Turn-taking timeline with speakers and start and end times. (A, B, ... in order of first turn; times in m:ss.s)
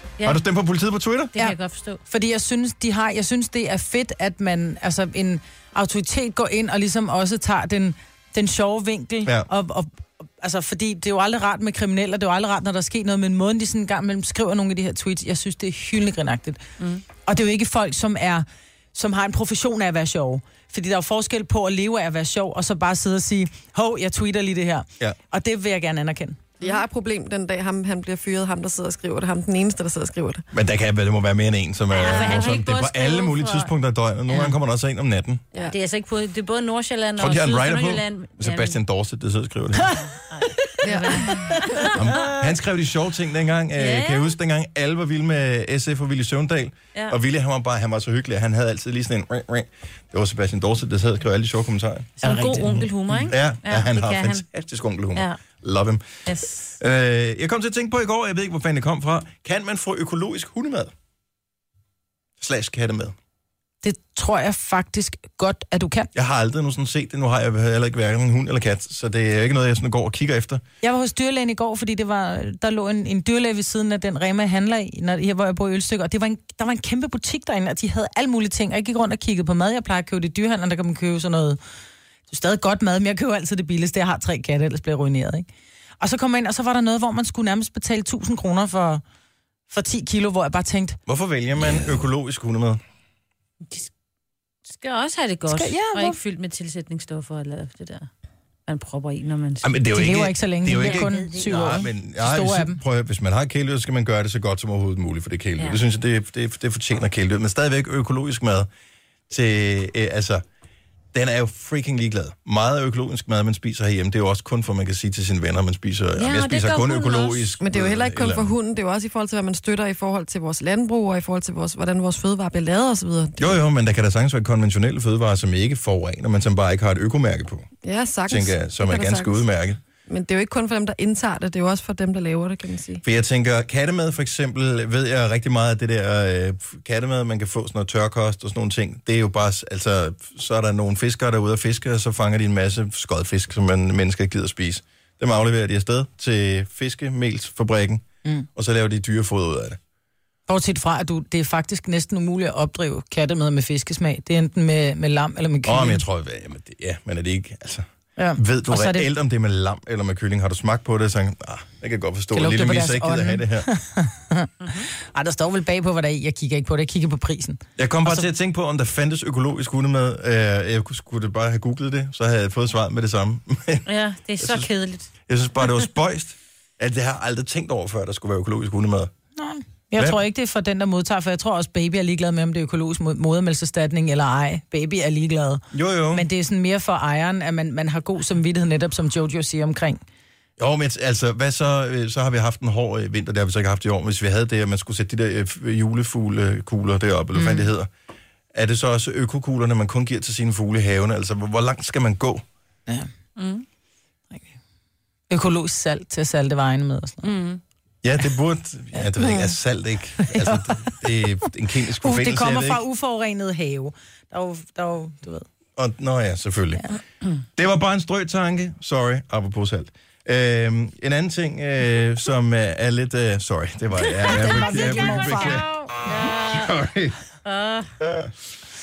0:00.2-0:01.3 A
0:01.3-0:02.0 B
0:02.1-0:16.6 C
0:17.2-0:26.4 C
0:26.6-0:30.4 D
0:30.5-0:35.4 A
0:31.9-0:33.7 B
0:35.6-0:38.8 B
0:37.2-0:40.0 A
0:40.0-0:42.0 B
0:40.8-0:41.7 D
0:41.9-0:52.3 A
0:43.8-0:44.4 B
0:52.2-0:53.3 C
0:52.2-0:54.4 B
0:53.2-0:56.0 A
0:56.2-0:56.7 B
0:56.8-1:00.9 A
1:02.4-1:03.1 A
1:03.8-1:06.1 C
1:06.1-1:10.6 A
1:10.8-1:21.6 C
1:22.3-1:25.5 C
1:26.0-1:29.0 C
1:29.7-1:31.0 C
1:31.1-1:32.8 A
1:34.7-1:38.1 B
1:35.5-1:36.2 C
1:38.7-1:39.7 B
1:39.6-1:48.7 A
1:39.9-1:42.8 C
1:40.8-1:41.8 B
1:49.3-1:50.4 A
1:51.1-1:58.5 A
1:56.2-1:57.5 B
1:57.6-2:03.6 D
2:03.4-2:07.7 A
2:07.8-2:09.4 D
2:08.3-2:09.8 A
2:10.0-2:13.0 D
2:13.0-2:29.8 A
2:30.5-2:36.0 C
2:35.6-2:43.7 A
2:38.2-2:39.1 C
2:42.3-2:48.3 C
2:44.6-2:44.9 B
2:47.8-2:53.9 A
2:53.8-2:55.1 B
2:54.4-2:54.7 A
2:55.3-2:59.1 A
2:59.4-3:10.0 C
3:05.7-3:06.3 A
3:10.6-3:17.9 A
3:17.3-3:17.7 C
3:18.5-3:22.4 A
3:23.4-3:23.6 B
3:25.3-3:27.3 C
3:27.2-3:27.6 B
3:28.0-3:32.8 A
3:29.0-3:29.5 C
3:30.2-3:31.0 C
3:31.9-3:35.4 C
3:35.8-3:36.8 A
3:37.6-3:47.2 A
3:44.0-3:45.9 C
3:45.0-3:46.7 B
3:47.4-3:47.9 B
3:48.0-3:48.3 A